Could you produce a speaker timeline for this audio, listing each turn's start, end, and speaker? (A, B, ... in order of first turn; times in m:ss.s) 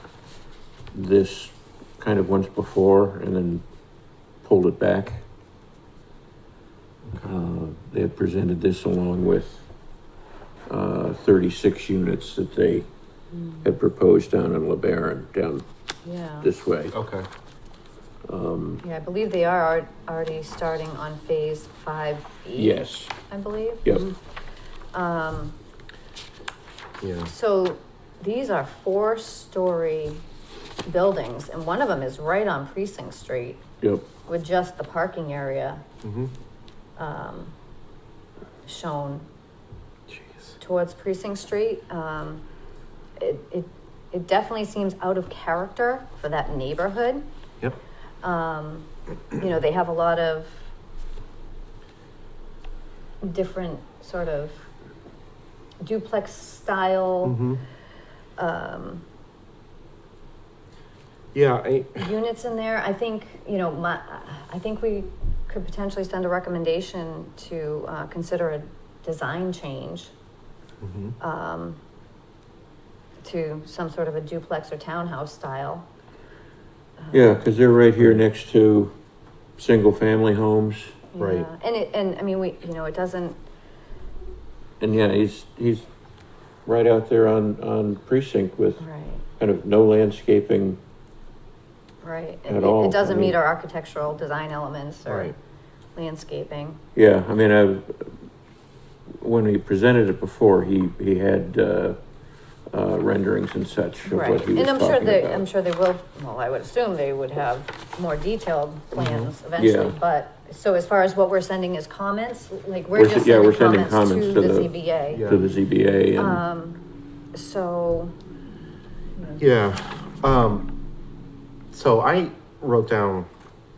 0:00.9-0:03.6 A
0:04.4-0:05.2 A
0:07.0-0:07.3 B
0:07.2-0:09.7 A
0:10.7-0:12.9 A
0:13.6-0:15.6 A
0:16.0-0:16.5 C
0:16.4-0:16.9 A
0:16.9-0:17.3 B
0:18.3-0:18.8 A
0:18.8-0:24.2 C
0:22.5-0:23.1 A
0:23.8-0:24.1 A
0:24.9-0:25.6 C
0:27.0-0:27.3 B
0:27.3-0:30.2 C
0:30.8-0:33.6 C
0:33.8-0:34.1 A
0:34.2-0:35.8 C
0:36.0-0:36.3 B
0:37.0-0:37.5 C
0:38.6-0:39.2 C
0:40.1-0:40.6 B
0:40.6-0:42.4 C
0:43.2-0:47.2 C
0:48.2-0:50.6 C
0:53.2-0:54.7 C
0:55.8-0:57.4 C
0:57.2-0:57.6 B
0:58.4-0:59.0 C
1:01.3-1:02.1 B
1:02.0-1:10.1 C
1:10.8-1:11.2 B
1:11.2-1:11.8 C
1:13.2-1:15.9 C
1:17.0-1:17.3 C
1:17.1-1:18.9 A
1:19.6-1:21.0 A
1:21.1-1:23.4 C
1:21.2-1:21.5 B
1:24.8-1:25.9 A
1:26.6-1:28.8 A
1:28.8-1:29.2 C
1:29.4-1:30.8 A
1:32.0-1:35.4 C
1:32.5-1:33.4 A
1:35.1-1:35.3 B
1:35.9-1:36.8 C
1:36.9-1:38.1 A
1:39.2-1:42.0 A
1:42.7-1:45.4 A
1:44.0-1:55.4 C
1:48.9-1:49.3 B
1:49.6-1:50.0 A
1:53.0-1:56.4 A
1:55.1-1:55.4 B
1:56.1-1:56.8 C
1:57.3-1:58.1 C
1:59.4-2:00.7 B
2:01.7-2:03.3 B